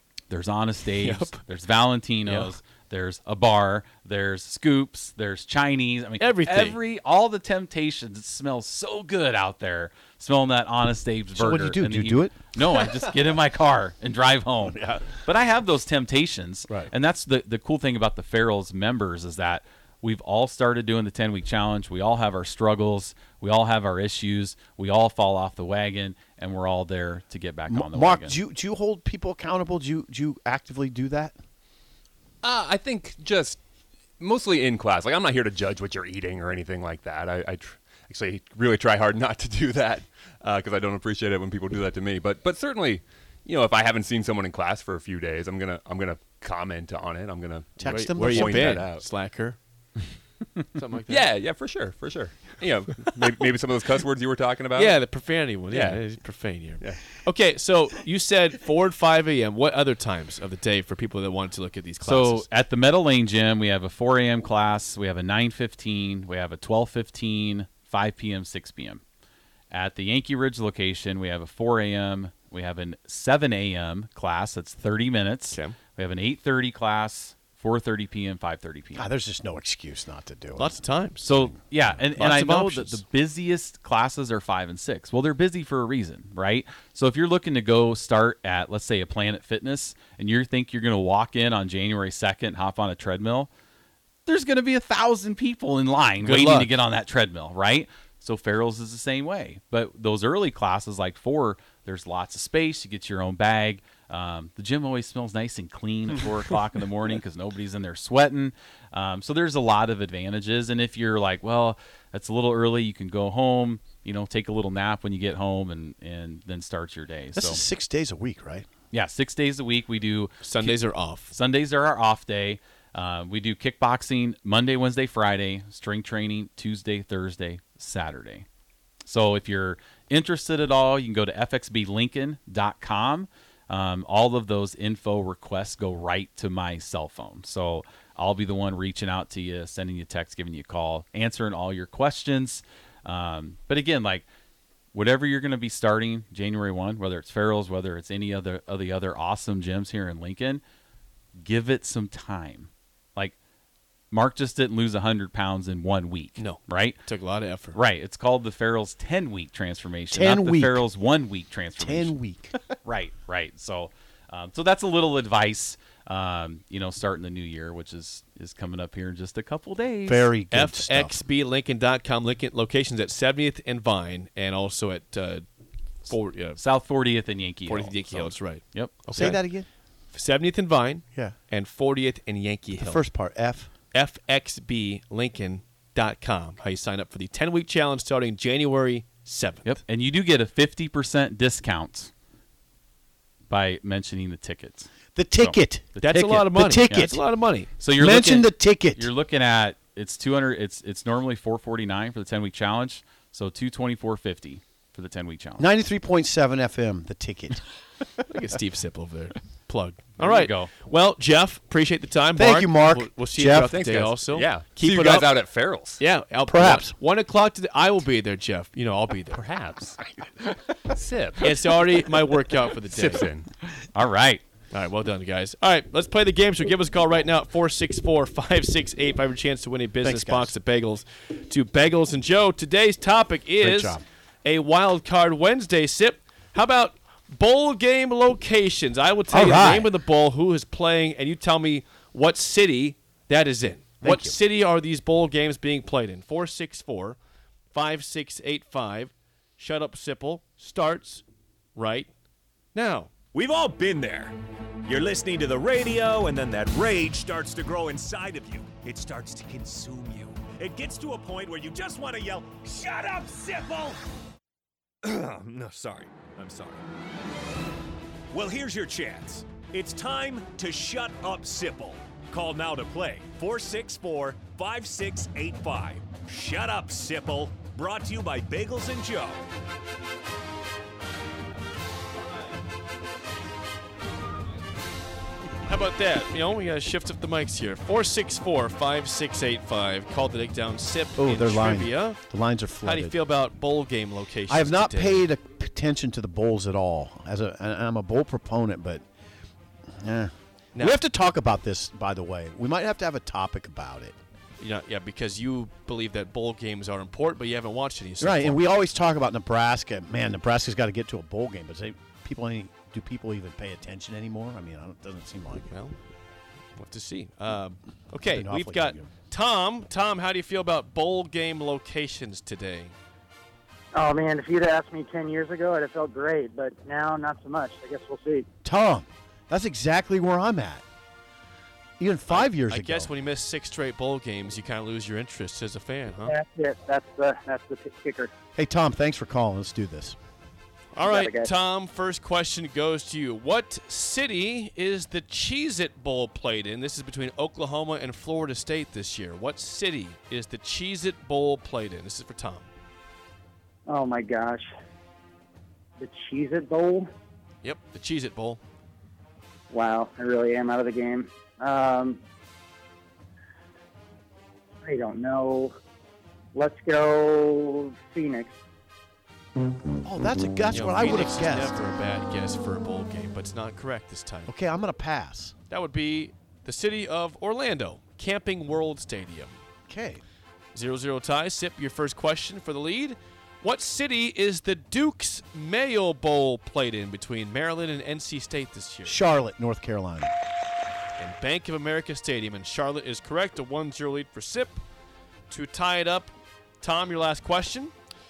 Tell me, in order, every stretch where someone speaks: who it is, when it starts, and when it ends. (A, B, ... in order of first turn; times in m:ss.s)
0:00.3-0:28.4 A
0:01.0-0:01.4 B
0:02.3-0:02.5 B
0:06.2-0:06.8 B
0:11.4-0:12.4 C
0:14.6-0:15.1 C
0:27.7-0:31.4 C
0:32.4-0:33.6 D
0:34.2-0:49.0 D
0:47.8-0:48.8 C
0:47.9-0:49.6 B
0:50.7-0:51.3 B
0:51.1-0:55.0 D
0:54.7-1:02.5 B
0:55.7-0:56.0 D
0:56.8-0:57.1 D
1:02.0-1:09.0 A
1:09.7-1:19.1 A
1:19.0-1:21.9 C
1:20.6-1:21.3 B
1:21.2-1:33.5 A
1:22.2-1:23.0 B
1:34.3-1:57.6 A
1:36.2-1:36.7 B
1:57.4-1:58.7 C
1:58.9-2:00.8 A
2:00.4-2:01.3 B
2:01.3-2:08.4 A
2:09.1-2:24.3 A
2:24.9-2:30.6 A
2:31.4-2:33.4 A
2:34.1-2:37.0 A
2:36.4-2:37.8 B
2:37.7-2:42.2 A
2:40.1-2:40.8 C
2:41.8-2:42.6 C
2:42.8-2:50.3 A
2:50.1-2:51.2 C
2:50.5-2:55.4 B
2:56.0-2:56.6 B
2:56.6-2:59.0 A
2:57.7-2:59.4 B
2:59.1-2:59.7 C
3:00.1-3:03.0 B
3:02.8-3:03.7 C
3:03.9-3:09.8 B
3:09.7-3:12.1 A
3:13.5-3:17.1 A
3:15.2-3:17.2 C
3:16.0-3:17.7 B
3:17.8-3:25.7 A
3:18.0-3:19.1 C
3:25.6-3:27.6 C
3:28.3-3:35.4 B
3:30.2-3:30.7 A
3:32.4-3:33.8 C
3:33.7-3:36.0 D
3:36.0-3:39.4 B
3:36.5-3:36.9 C
3:39.3-3:40.0 D
3:40.8-3:41.6 D
3:41.4-3:43.3 B
3:42.9-3:43.5 D
3:43.9-3:44.4 A
3:44.7-4:07.2 B
3:50.0-3:50.5 C
3:53.6-3:54.0 C
3:59.3-3:59.9 C
4:04.0-4:04.4 C
4:07.7-4:11.2 B
4:11.8-4:12.1 B
4:12.7-4:13.1 B
4:13.3-4:24.0 E
4:25.0-4:26.8 E
4:28.3-4:39.4 E
4:45.6-4:52.2 B
4:51.2-4:53.2 C
4:52.8-4:55.2 B
4:54.5-4:59.0 C
5:00.0-5:04.2 C
5:04.6-5:08.6 B
5:08.2-5:15.8 C
5:15.7-5:16.0 B
5:16.8-5:23.0 B
5:18.2-5:19.1 C
5:23.9-5:28.5 F
5:28.6-5:30.8 C
5:32.0-5:33.1 C
5:32.3-5:36.4 B
5:36.2-5:38.3 F
5:38.6-5:40.2 C
5:40.9-5:52.7 B
5:41.1-5:41.5 F
5:53.9-5:54.7 F
5:56.0-5:57.1 F
5:57.6-5:58.6 B
5:59.7-6:02.2 F
6:04.8-6:05.7 F
6:06.5-6:08.6 F
6:10.0-6:11.8 C
6:10.7-6:14.5 B
6:14.5-6:15.6 C
6:15.7-6:19.6 B
6:19.9-6:20.2 C
6:20.7-6:29.2 B
6:29.0-6:30.3 C
6:31.2-6:34.8 B
6:35.5-6:37.9 B